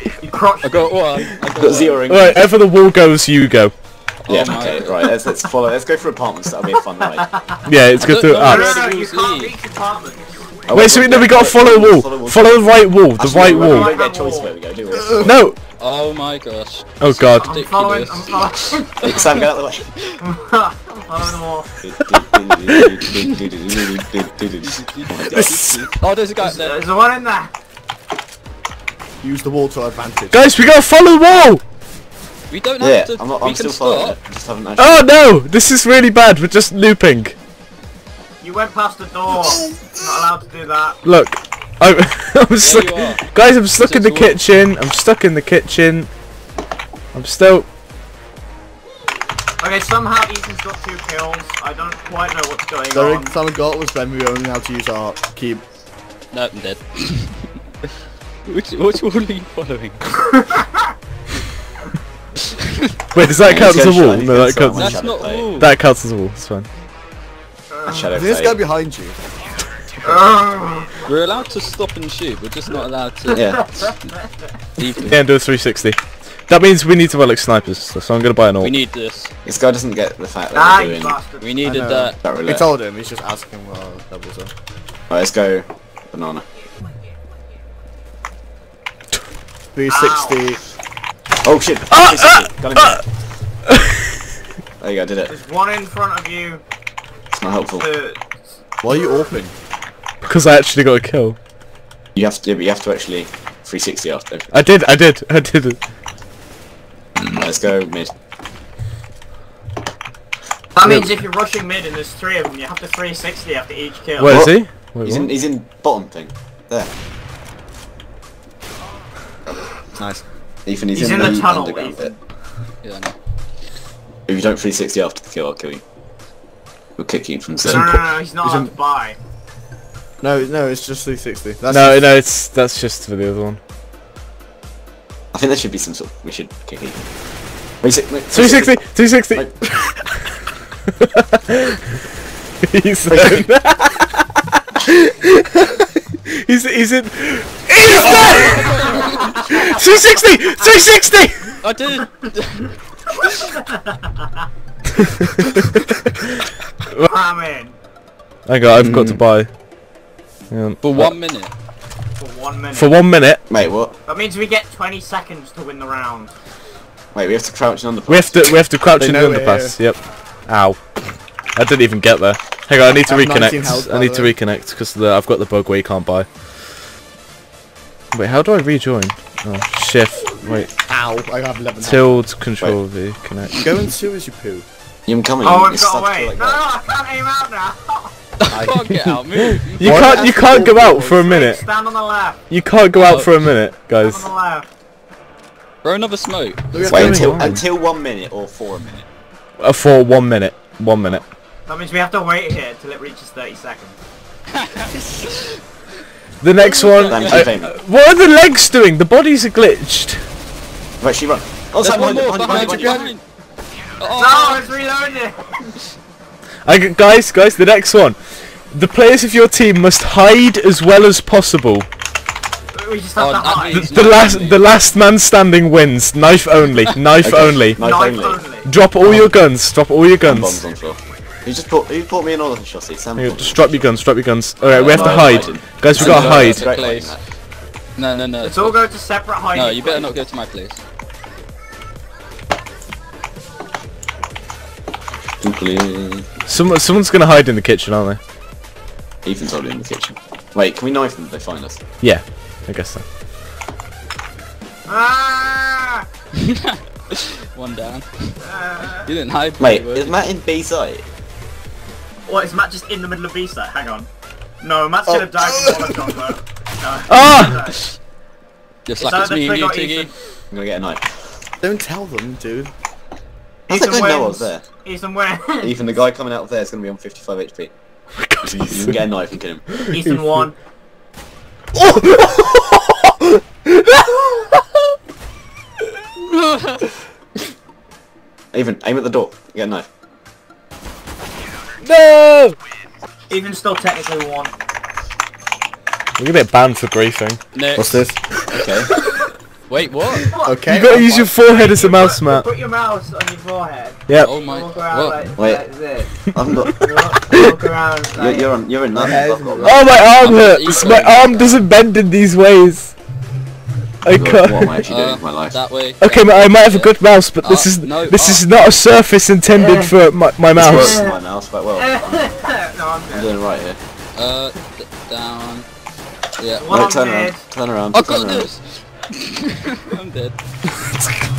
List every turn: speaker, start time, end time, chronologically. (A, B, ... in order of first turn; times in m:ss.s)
0:00.2-0:01.0 A
0:00.6-0:02.1 B
0:01.6-0:02.5 C
0:02.0-0:03.7 D
0:04.2-0:05.1 B
0:04.3-0:07.2 C
0:07.2-0:07.6 A
0:07.6-0:08.8 D
0:08.0-0:09.5 B
0:08.3-0:10.6 A
0:10.7-0:15.5 C
0:10.7-0:13.9 D
0:13.4-0:14.5 A
0:15.2-0:15.6 D
0:15.8-0:19.5 B
0:17.0-0:17.5 D
0:17.2-0:19.1 A
0:19.0-0:19.9 C
0:20.2-0:21.7 A
0:21.8-0:25.5 C
0:24.6-0:26.8 B
0:25.2-0:25.9 E
0:26.4-0:27.5 A
0:29.2-0:30.5 E
0:30.3-0:31.6 D
0:32.5-0:34.2 B
0:32.8-0:35.1 C
0:34.8-0:37.4 D
0:38.4-0:41.0 A
0:41.0-0:46.1 D
0:42.6-0:44.4 B
0:47.1-0:47.6 D
0:49.6-0:53.3 A
0:52.9-0:55.6 E
0:56.3-0:57.5 B
0:58.4-1:00.1 B
1:00.2-1:00.9 A
1:03.1-1:06.7 D
1:03.4-1:05.5 C
1:04.7-1:05.7 B
1:07.7-1:08.1 A
1:07.8-1:08.6 C
1:08.1-1:09.2 E
1:10.0-1:10.3 E
1:10.0-1:10.9 A
1:11.0-1:14.0 B
1:13.3-1:13.6 C
1:13.6-1:14.2 A
1:14.8-1:15.2 B
1:15.0-1:18.7 D
1:18.6-1:19.3 B
1:19.4-1:21.2 C
1:20.5-1:21.6 A
1:21.4-1:22.2 B
1:21.6-1:24.5 E
1:22.2-1:22.7 C
1:25.1-1:26.4 C
1:29.7-1:30.6 E
1:29.9-1:30.4 A
1:31.4-1:33.0 C
1:31.9-1:33.0 D
1:33.6-1:34.0 D
1:34.8-1:35.3 C
1:35.3-1:36.6 A
1:37.3-1:37.8 C
1:37.7-1:38.2 A
1:38.8-1:39.5 E
1:40.2-1:41.4 D
1:42.1-1:44.6 C
1:44.5-1:45.8 D
1:47.3-1:48.1 C
1:50.7-1:54.4 A
1:54.2-1:55.3 D
1:54.2-1:56.9 C
2:00.0-2:00.2 E
2:00.6-2:02.1 C
2:00.9-2:02.2 A
2:02.8-2:03.1 B
2:04.3-2:05.8 C
2:07.0-2:08.0 C
2:07.6-2:09.2 A
2:07.6-2:08.7 E
2:10.2-2:12.1 E
2:11.7-2:13.6 D
2:15.3-2:17.0 C
2:17.8-2:19.9 C
2:18.3-2:19.9 D
2:21.0-2:21.7 D
2:22.6-2:24.2 D
2:23.1-2:23.5 C
2:24.8-2:31.6 D
2:27.9-2:29.3 B
2:31.6-2:33.5 B
2:33.3-2:34.5 A
2:37.0-2:37.8 A
2:38.5-2:39.5 D
2:38.8-2:39.2 C
2:40.5-2:41.1 D
2:40.8-2:41.5 B
2:42.2-2:43.0 A
2:42.7-2:43.4 D
2:43.5-2:43.9 C
2:44.1-2:46.3 A
2:47.1-2:48.5 C
2:48.1-2:50.9 D
2:49.0-2:49.8 E
2:51.5-2:56.3 D
2:53.0-2:54.4 E
2:58.1-3:00.7 D
3:00.8-3:02.2 E
3:01.8-3:03.6 D
3:03.5-3:04.6 E
3:05.0-3:06.6 C
3:05.4-3:08.1 A
3:08.5-3:08.9 E
3:08.5-3:10.2 B
3:09.8-3:11.6 D
3:09.8-3:11.2 E
3:11.2-3:12.4 A
3:12.5-3:14.3 D
3:12.9-3:13.5 B
3:13.9-3:14.6 A
3:15.8-3:16.6 B
3:16.7-3:17.6 E
3:16.8-3:17.6 D
3:16.9-3:19.0 C
3:19.6-3:21.2 D
3:21.7-3:24.0 A
3:24.5-3:25.6 B
3:26.4-3:30.2 D
3:26.6-3:27.5 B
3:27.1-3:27.8 C
3:31.0-3:33.1 C
3:31.8-3:33.2 B
3:32.4-3:33.0 E
3:34.0-3:34.6 B
3:34.1-3:35.7 A
3:36.6-3:41.9 D
3:42.7-3:43.8 A
3:43.2-3:44.7 B
3:43.7-3:47.8 D
3:47.2-3:48.4 C
3:47.8-3:48.7 A
3:48.6-3:50.6 D
3:50.2-3:54.0 C
3:53.2-3:56.7 D
3:54.7-3:57.2 B
3:54.7-3:57.2 C
3:58.0-3:58.9 B
3:58.4-4:00.2 A
3:59.5-4:00.8 B
4:05.4-4:06.3 C
4:06.5-4:08.2 D
4:09.2-4:11.8 C
4:12.0-4:13.0 D
4:14.9-4:16.0 A
4:16.4-4:18.4 B
4:18.4-4:19.1 A
4:19.0-4:20.2 B
4:19.6-4:21.0 C
4:22.3-4:24.1 A
4:24.6-4:27.8 A
4:25.3-4:26.1 E
4:27.1-4:27.7 D
4:28.9-4:30.1 B
4:29.0-4:30.1 A
4:30.5-4:31.2 C
4:31.6-4:32.7 E
4:33.7-4:35.7 A
4:33.7-4:34.6 C
4:35.6-4:37.7 C
4:38.2-4:39.1 D
4:38.4-4:39.6 C
4:39.7-4:40.0 D
4:39.9-4:40.5 A
4:41.7-4:44.6 D
4:46.3-4:46.8 B
4:48.5-4:49.9 C
4:51.8-4:52.6 D
4:53.3-4:54.5 A
4:56.2-4:57.4 D
4:57.5-4:58.1 B
4:57.8-4:58.4 E
4:58.5-4:58.9 C
4:59.7-5:00.3 B
5:00.2-5:00.6 A
5:00.4-5:01.4 E
5:00.7-5:02.5 D
5:01.3-5:08.6 A
5:04.2-5:05.3 B
5:05.4-5:05.6 C
5:06.3-5:06.9 C
5:08.1-5:10.0 C
5:08.9-5:09.9 E
5:09.6-5:12.9 D
5:10.1-5:11.7 B
5:14.0-5:14.8 D
5:14.1-5:15.6 C
5:14.8-5:18.4 B
5:16.0-5:21.0 D
5:19.5-5:19.9 A
5:20.5-5:22.0 C
5:20.6-5:21.1 A
5:21.8-5:23.3 A
5:23.1-5:23.8 C
5:24.1-5:25.6 B
5:26.4-5:26.7 B
5:26.6-5:27.4 A
5:26.7-5:28.5 C
5:27.9-5:30.3 B